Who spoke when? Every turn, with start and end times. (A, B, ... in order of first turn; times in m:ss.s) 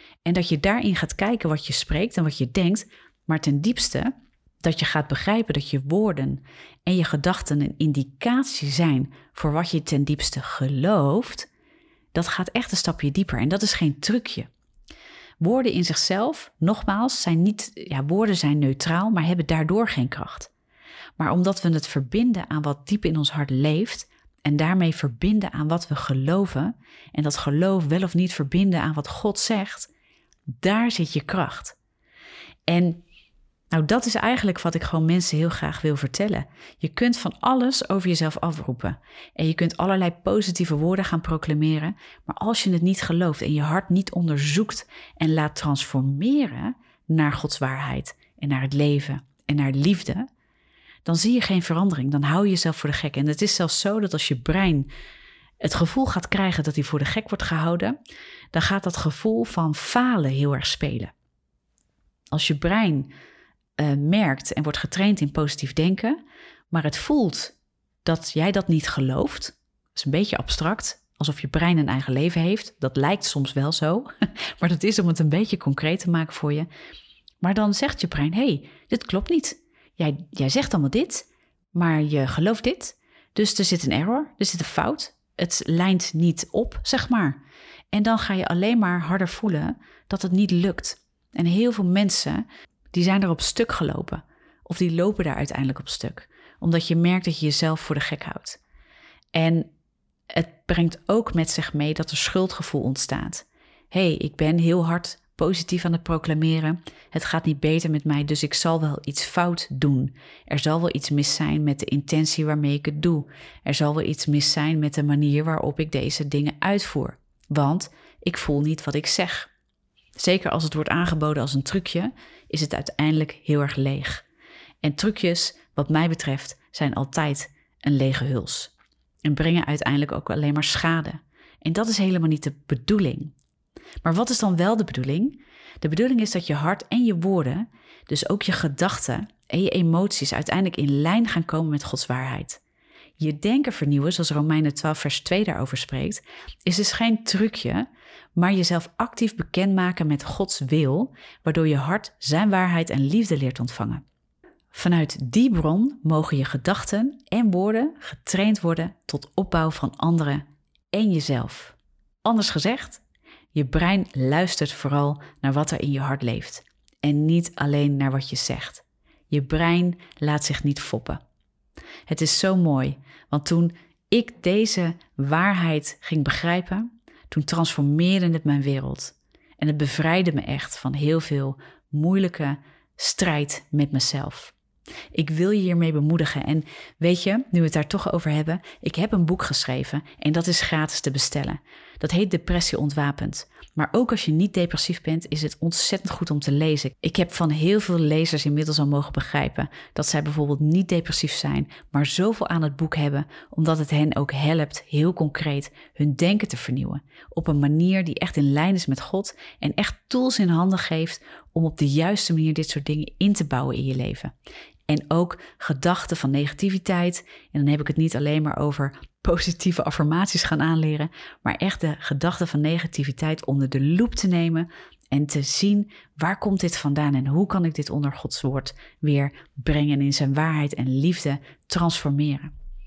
0:00.2-0:04.1 A
0:04.6-0:11.5 A
0:12.1-0:14.5 A
0:15.4-0:20.5 A
0:21.2-0:29.9 A
0:30.5-0:31.8 A
0:32.7-0:33.0 A
0:33.7-0:50.3 A
0:51.0-0:54.9 A
0:55.6-0:58.0 A
0:58.5-1:01.1 A
1:02.3-1:03.1 A
1:03.8-1:06.2 A
1:06.7-1:16.7 A
1:17.4-1:27.4 A
1:27.9-1:38.6 A
1:39.3-1:39.7 A
1:40.3-1:59.5 A
2:00.2-2:04.2 A
2:04.8-2:08.7 A
2:09.2-2:13.3 A
2:14.0-2:22.6 A
2:23.2-2:34.0 A
2:34.7-2:43.0 A
2:43.5-2:51.2 A
2:52.1-3:04.6 A
3:05.1-3:34.3 A
3:34.9-3:52.5 A